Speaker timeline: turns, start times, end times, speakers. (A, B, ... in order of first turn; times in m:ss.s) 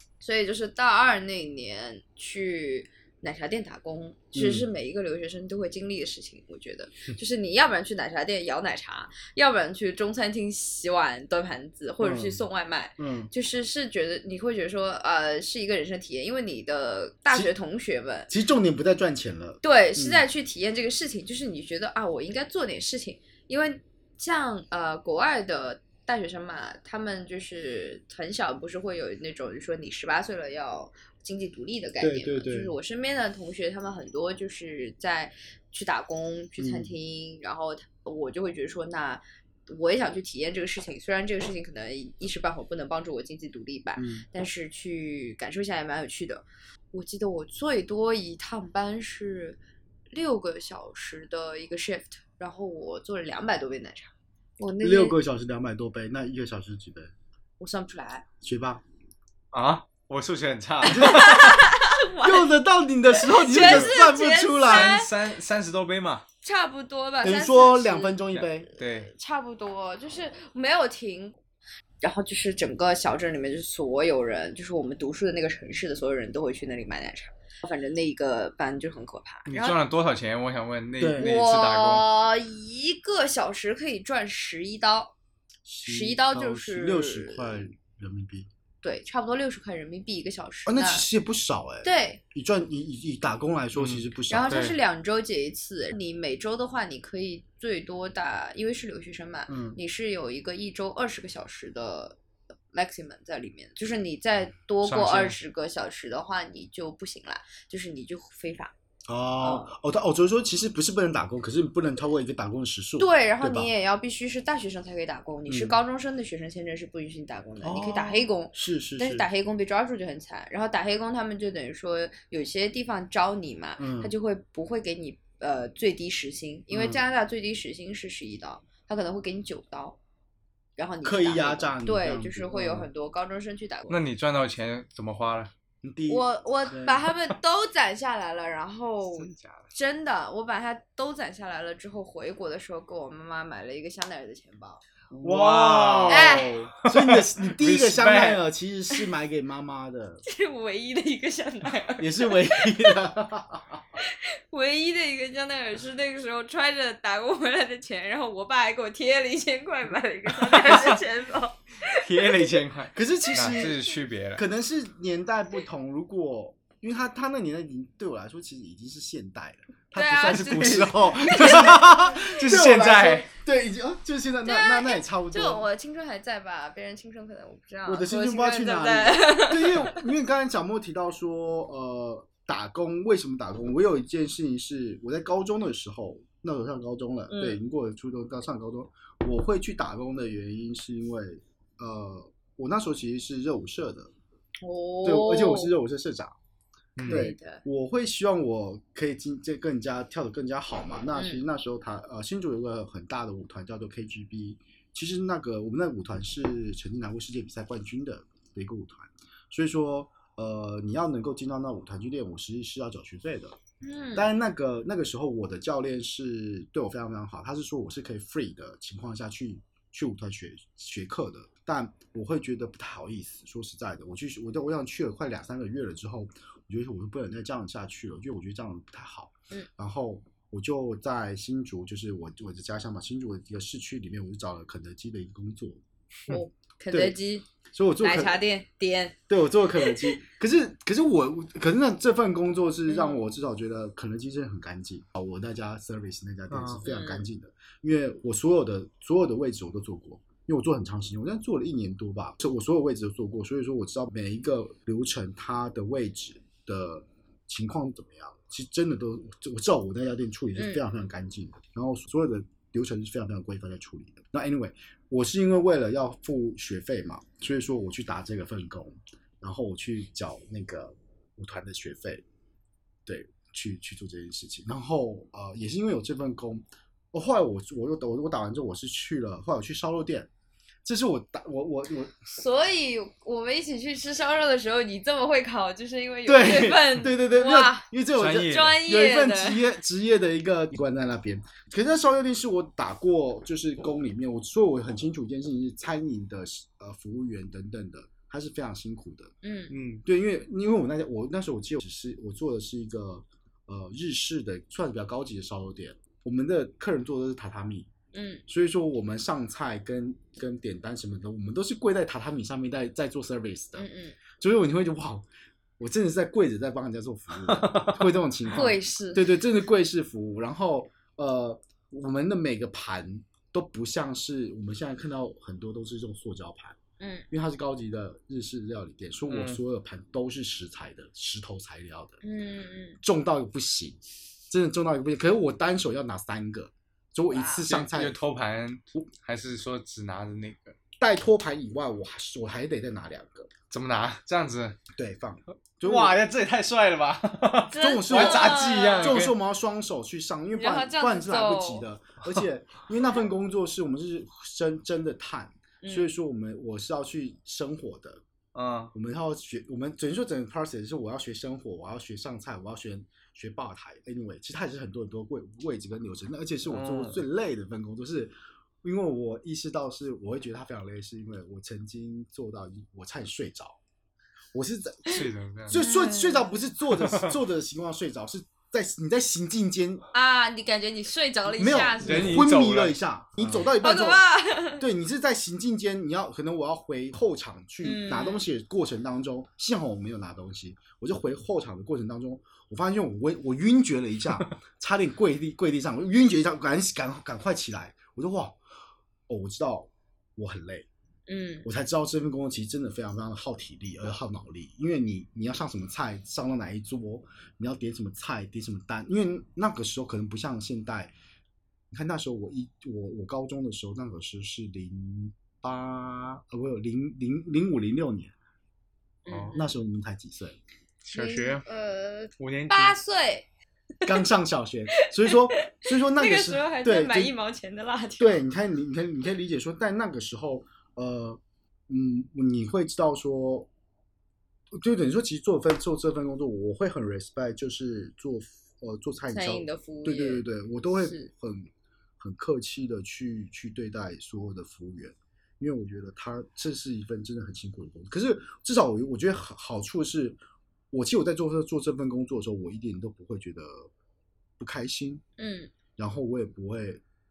0:00.2-0:18.3 A
0:04.3-0:04.7 B
0:12.0-0:12.4 B
0:13.0-0:13.3 B
0:18.3-0:20.2 B
0:19.6-0:49.6 A
0:32.0-0:32.7 B
0:36.6-0:36.9 B
0:44.0-0:44.3 B
0:50.1-0:55.2 A
0:54.8-0:57.1 B
0:57.6-0:58.2 A
0:58.4-0:58.8 B
0:59.5-1:01.6 C
1:00.8-1:02.6 A
1:00.9-1:01.6 B
1:02.2-1:05.0 B
1:03.1-1:05.1 A
1:03.5-1:04.0 C
1:04.6-1:06.2 C
1:06.4-1:08.2 A
1:07.2-1:08.7 B
1:08.3-1:09.1 C
1:08.8-1:11.4 A
1:12.0-1:19.8 A
1:19.5-1:22.1 C
1:21.0-1:21.2 B
1:21.2-1:25.2 A
1:25.7-1:28.5 B
1:25.8-1:27.6 A
1:28.8-1:31.1 A
1:30.7-1:34.7 B
1:31.8-1:32.2 A
1:33.8-1:34.8 C
1:34.3-1:42.2 A
1:39.5-1:39.8 B
1:42.7-1:48.7 A
1:44.8-1:45.4 C
1:49.1-1:53.7 B
1:49.4-1:49.7 A
1:53.0-2:10.0 A
1:55.5-1:55.8 B
1:57.6-1:59.3 B
2:03.8-2:04.1 B
2:06.7-2:07.0 B
2:10.8-2:14.0 A
2:11.0-2:12.9 B
2:13.9-2:15.5 C
2:15.8-2:17.0 B
2:16.1-2:24.8 A
2:19.2-2:19.7 C
2:25.1-2:30.2 B
2:25.2-2:28.4 C
2:26.1-2:26.6 A
2:30.2-2:33.1 A
2:32.0-2:33.8 B
2:34.0-2:42.6 A
2:40.6-2:40.9 C
2:41.9-2:44.4 C
2:42.9-2:55.6 B
2:43.4-2:43.7 A
2:50.0-2:52.4 A
2:50.2-2:53.3 C
2:54.4-3:00.0 A
2:57.9-3:14.1 B
3:07.3-3:07.6 A
3:14.6-3:15.7 A
3:15.0-3:16.4 B
3:17.0-3:17.3 C
3:17.0-3:17.6 A
3:17.0-3:33.6 B
3:21.2-3:21.4 A
3:33.8-3:34.3 A
3:34.2-3:55.8 B
3:56.3-3:57.5 A
3:56.9-3:57.2 B
3:57.7-3:58.4 B
3:58.0-3:59.2 A
3:59.3-4:32.2 B
3:59.7-4:00.2 A
4:02.9-4:03.3 A
4:06.5-4:06.8 C
4:06.8-4:07.2 A
4:20.6-4:20.8 A
4:33.1-4:40.3 B
4:40.8-4:42.2 B
4:42.3-4:47.9 A
4:46.3-4:59.3 B
4:48.2-4:48.8 C
4:48.4-4:49.6 A
4:59.4-4:59.8 A
4:59.7-5:00.0 C
5:00.0-5:07.9 B
5:08.1-5:08.4 A
5:08.5-5:13.9 B
5:13.8-5:14.2 A
5:14.4-5:15.3 B
5:15.8-5:26.8 B
5:17.5-5:18.0 C
5:18.5-5:19.3 A
5:27.0-5:27.3 A
5:27.3-5:32.2 B
5:29.3-5:29.6 C
5:32.2-5:33.0 A
5:33.0-5:38.2 B
5:37.3-5:37.6 A
5:37.6-5:40.8 C
5:41.0-5:43.5 B
5:43.7-5:44.8 C
5:45.0-5:46.2 B
5:45.8-5:49.4 C
5:47.7-5:49.2 A
5:47.7-5:58.2 B
5:50.6-5:51.8 A
5:55.8-5:56.1 A
5:58.6-5:58.9 C
5:58.9-6:13.8 B
6:06.7-6:07.2 C
6:14.5-6:20.1 B
6:15.1-6:15.8 C
6:15.7-6:16.6 A
6:16.9-6:17.3 C
6:20.1-6:22.4 A
6:21.5-6:38.6 B
6:22.0-6:23.6 C
6:23.8-6:24.8 A
6:27.8-6:28.4 A
6:39.3-6:40.9 B
6:41.3-6:41.7 A
6:41.6-6:51.1 B
6:51.9-6:58.3 B
6:59.3-6:59.7 A
6:59.3-6:59.6 C
6:59.6-7:00.6 B
7:01.0-7:01.6 C
7:01.1-7:03.5 A
7:02.4-7:03.0 C
7:04.0-7:07.3 B
7:05.0-7:08.4 A
7:08.2-7:13.7 B
7:14.7-7:30.4 B
7:19.3-7:20.4 A
7:21.0-7:21.3 A
7:30.9-7:33.9 B
7:34.6-7:35.2 B
7:35.4-7:35.7 A
7:36.0-7:37.0 B